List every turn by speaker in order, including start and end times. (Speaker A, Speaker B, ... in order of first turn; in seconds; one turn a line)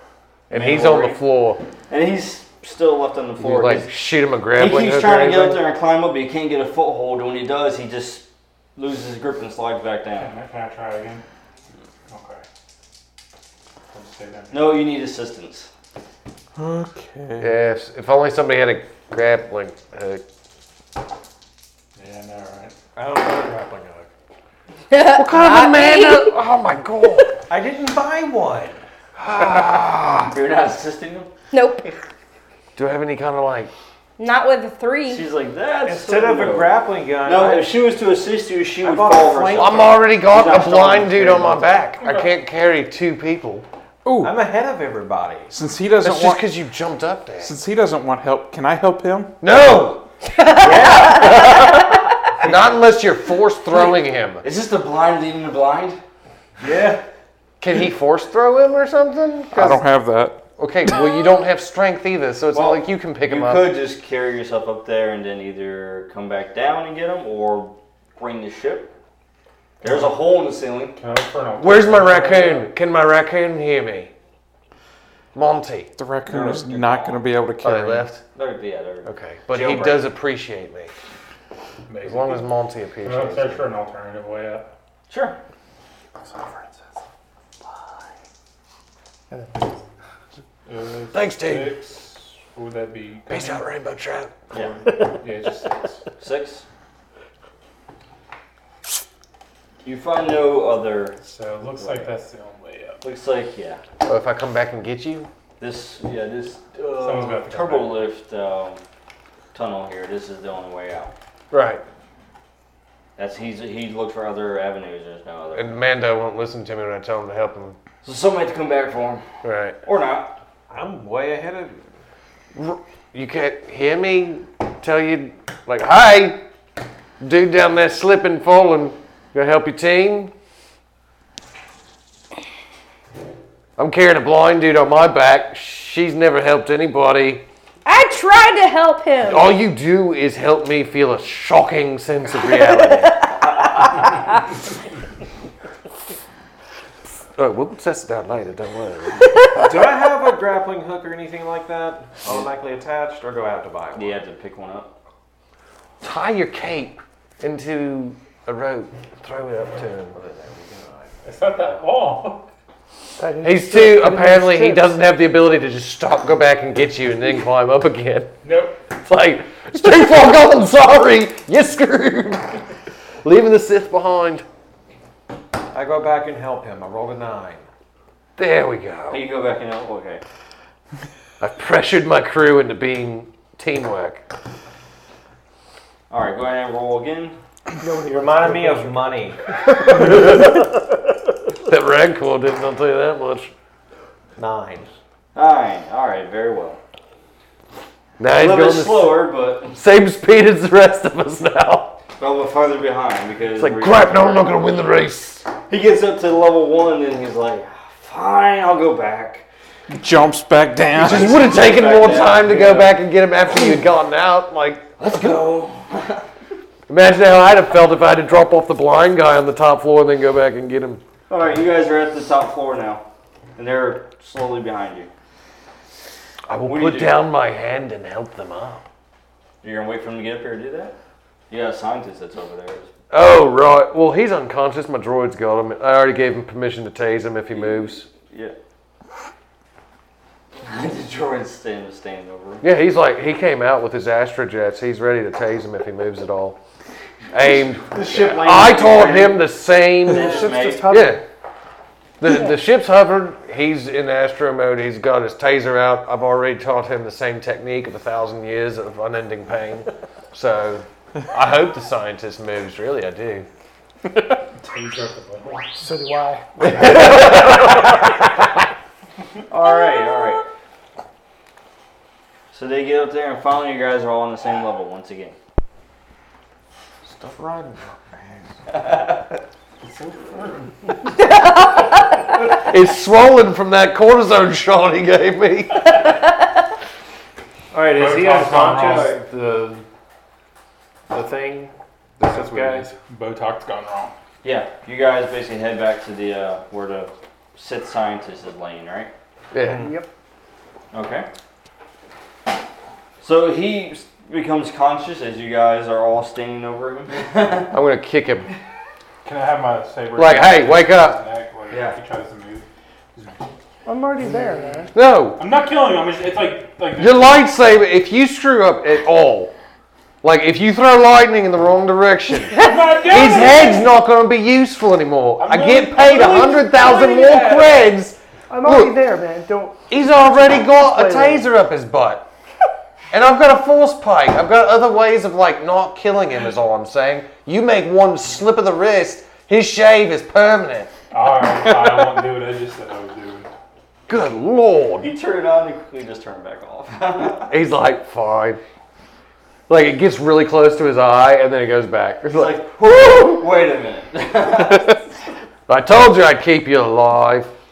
Speaker A: 0.5-1.6
Speaker B: 0.5-1.2
Speaker B: 1.9-3.9
Speaker A: 3.4-5.6
Speaker B: 4.5-8.2
Speaker B: 8.8-10.3
Speaker C: 10.2-11.2
Speaker C: 12.1-12.4
Speaker C: 13.9-14.8
Speaker B: 14.5-15.7
Speaker D: 16.6-17.6
Speaker A: 17.4-20.2
Speaker C: 21.9-22.7
Speaker E: 22.9-24.1
Speaker F: 24.9-26.4
Speaker A: 25.1-27.3
Speaker E: 27.5-28.8
Speaker A: 29.2-30.3
Speaker B: 30.2-31.3
Speaker F: 31.5-31.9
Speaker A: 32.8-33.7
Speaker F: 34.2-35.2
Speaker B: 35.1-41.6
Speaker E: 35.8-37.7
Speaker E: 38.8-40.0
Speaker A: 39.5-43.6
Speaker C: 42.0-42.3
Speaker D: 44.0-44.5
Speaker E: 44.2-45.5
Speaker D: 45.5-46.4
Speaker A: 46.0-47.5
Speaker D: 47.4-49.3
Speaker A: 49.4-50.0
Speaker F: 50.4-51.8
Speaker B: 50.6-51.2
Speaker A: 50.7-51.8
Speaker A: 52.4-54.4
Speaker B: 54.4-56.0
Speaker E: 56.6-57.0
Speaker A: 57.6-59.8
Speaker D: 59.5-60.4
Speaker A: 60.6-63.7
Speaker B: 62.5-68.9
Speaker B: 69.8-71.0
Speaker C: 71.0-72.7
Speaker A: 71.6-74.1
Speaker A: 75.3-75.9
Speaker D: 76.0-78.1
Speaker B: 76.2-77.2
Speaker A: 77.6-78.2
Speaker B: 78.3-80.0
Speaker A: 79.0-80.9
Speaker C: 81.9-82.5
Speaker A: 82.0-83.7
Speaker C: 83.0-84.7
Speaker B: 85.1-85.4
Speaker G: 86.2-86.7
Speaker G: 89.3-89.8
Speaker C: 90.7-93.7
Speaker A: 91.1-91.8
Speaker A: 93.3-94.4
Speaker B: 94.5-94.8
Speaker C: 94.9-96.0
Speaker B: 96.2-96.7
Speaker B: 99.8-101.2
Speaker C: 101.2-103.0
Speaker B: 101.8-102.1
Speaker B: 103.0-103.8
Speaker A: 104.0-105.3
Speaker B: 105.6-108.8
Speaker C: 107.0-108.1
Speaker B: 109.5-111.1
Speaker A: 111.5-111.8
Speaker B: 113.2-115.8
Speaker A: 115.5-117.8
Speaker B: 118.0-119.2
Speaker A: 119.4-119.8
Speaker B: 119.8-120.3
Speaker E: 120.7-121.8
Speaker A: 122.5-126.4
Speaker A: 127.2-130.3
Speaker A: 133.8-137.4
Speaker F: 137.8-139.6
Speaker A: 139.2-143.2
Speaker F: 142.7-143.2
Speaker A: 147.3-149.4
Speaker E: 149.5-154.2
Speaker B: 152.2-152.5
Speaker B: 153.9-154.9
Speaker A: 156.0-160.2
Speaker E: 160.1-161.8
Speaker C: 161.2-162.5
Speaker G: 163.2-164.9
Speaker A: 163.4-168.3
Speaker C: 168.4-168.8
Speaker A: 169.0-172.6
Speaker A: 173.2-174.4
Speaker E: 175.7-177.6
Speaker A: 178.4-179.2
Speaker B: 179.1-180.2
Speaker A: 181.4-184.2
Speaker B: 186.1-187.4
Speaker G: 187.8-190.6
Speaker E: 188.0-189.4
Speaker A: 189.9-190.5
Speaker A: 191.6-193.5
Speaker E: 194.4-194.9
Speaker B: 195.3-196.8
Speaker A: 198.2-202.0
Speaker B: 198.3-199.8
Speaker B: 202.2-204.3
Speaker A: 203.5-205.5
Speaker B: 205.7-209.4
Speaker D: 209.9-211.4
Speaker A: 210.9-215.3
Speaker B: 211.1-213.0
Speaker B: 215.0-216.2
Speaker A: 216.9-221.0
Speaker B: 221.3-223.0
Speaker B: 223.6-225.1
Speaker A: 226.5-228.8
Speaker B: 226.6-227.2
Speaker B: 229.6-230.9
Speaker B: 231.5-232.9
Speaker A: 233.1-238.1
Speaker B: 237.5-238.5
Speaker B: 240.6-242.7
Speaker A: 242.6-246.6
Speaker A: 247.3-251.2
Speaker B: 247.9-249.5
Speaker B: 250.1-250.9
Speaker G: 250.1-251.2
Speaker A: 252.2-263.5
Speaker G: 252.2-252.6
Speaker C: 264.6-265.7
Speaker G: 265.7-267.6
Speaker A: 266.8-267.5
Speaker B: 269.5-270.4
Speaker B: 272.5-275.4
Speaker A: 277.0-278.4
Speaker C: 279.8-280.8
Speaker A: 282.6-285.9
Speaker E: 287.7-289.8
Speaker C: 287.9-289.1
Speaker B: 288.7-289.2
Speaker E: 291.1-292.9
Speaker A: 292.3-292.8
Speaker C: 293.0-294.1
Speaker B: 294.4-299.1
Speaker A: 299.5-299.9
Speaker E: 299.6-299.9
Speaker G: 299.7-300.1
Speaker B: 300.9-301.3
Speaker B: 303.2-307.7
Speaker A: 307.7-308.5
Speaker C: 309.2-313.4
Speaker A: 310.1-311.2
Speaker B: 311.7-311.9
Speaker G: 313.8-314.9
Speaker A: 314.9-315.4
Speaker C: 315.4-317.4
Speaker A: 316.9-319.5
Speaker A: 320.2-328.9
Speaker C: 322.5-323.9
Speaker C: 325.4-327.9
Speaker G: 328.5-331.5
Speaker A: 329.9-332.3
Speaker A: 333.1-340.9
Speaker C: 341.1-343.5
Speaker A: 344.1-345.1
Speaker B: 345.0-347.5
Speaker A: 347.5-348.6
Speaker A: 349.7-352.7
Speaker B: 352.3-355.0
Speaker A: 355.7-357.5